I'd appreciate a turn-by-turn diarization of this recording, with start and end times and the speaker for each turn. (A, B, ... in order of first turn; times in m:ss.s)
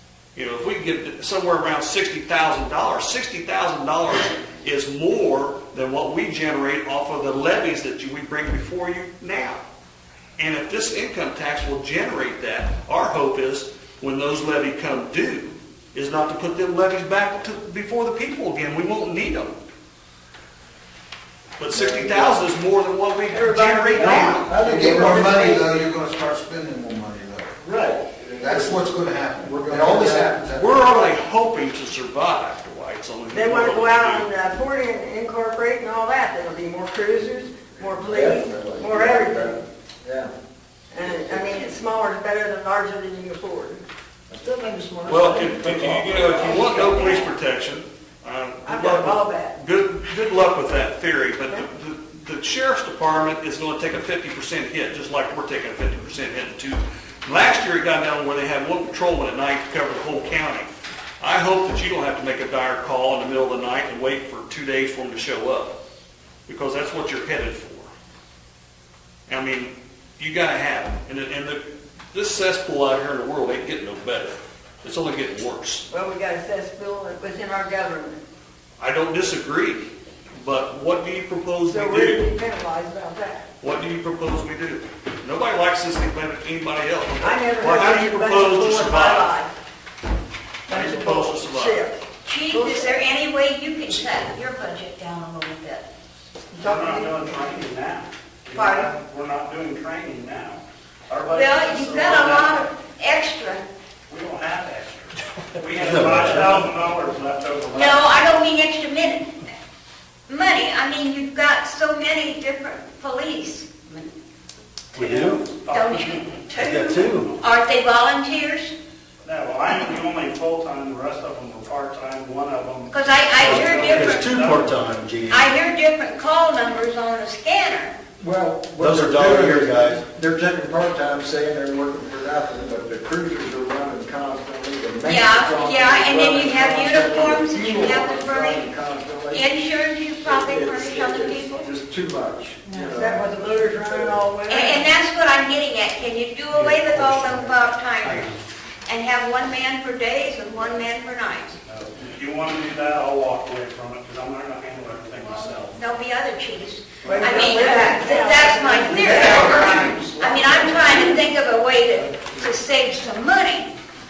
0:00.4-0:09.6 A
0:10.4-0:19.6 A
0:21.6-0:24.5 A
0:21.8-0:22.4 B
0:23.3-0:25.6 C
0:24.0-0:27.6 D
0:24.5-0:25.3 B
0:27.6-0:28.8 B
0:28.4-0:31.1 D
0:30.6-0:34.3 A
0:33.3-0:39.7 C
0:37.8-0:40.3 B
0:40.9-0:43.8 C
0:41.0-0:41.8 B
0:44.3-0:46.6 B
0:45.1-1:05.8 A
0:46.5-0:47.3 C
0:48.6-0:49.6 C
1:06.5-1:07.9 A
1:09.3-1:15.9 A
1:15.9-1:18.2 C
1:18.8-1:19.9 A
1:20.4-1:22.2 A
1:21.7-1:23.5 C
1:23.6-1:29.4 A
1:27.2-1:29.5 C
1:30.7-1:31.9 A
1:30.7-1:33.1 C
1:32.3-1:35.9 E
1:36.5-1:37.4 C
1:36.6-1:42.7 F
1:41.3-1:43.7 E
1:44.1-1:48.1 F
1:45.8-1:46.6 G
1:47.8-1:49.4 E
1:50.3-1:54.1 E
1:55.0-1:55.4 G
1:55.0-1:56.4 F
1:55.7-1:58.7 E
1:56.6-1:57.3 G
1:57.0-1:57.3 F
1:59.2-2:04.8 F
2:02.9-2:04.3 E
2:03.4-2:05.5 G
2:05.3-2:08.0 E
2:08.2-2:19.4 B
2:08.8-2:10.1 G
2:15.0-2:18.7 E
2:19.3-2:21.7 E
2:20.2-2:24.2 B
2:22.7-2:24.9 C
2:24.5-2:28.3 E
2:26.6-2:27.5 F
2:28.0-2:28.3 F
2:28.9-2:31.6 E
2:31.6-2:35.8 F
2:35.8-2:43.7 E
2:37.0-2:38.7 F
2:37.0-2:41.2 C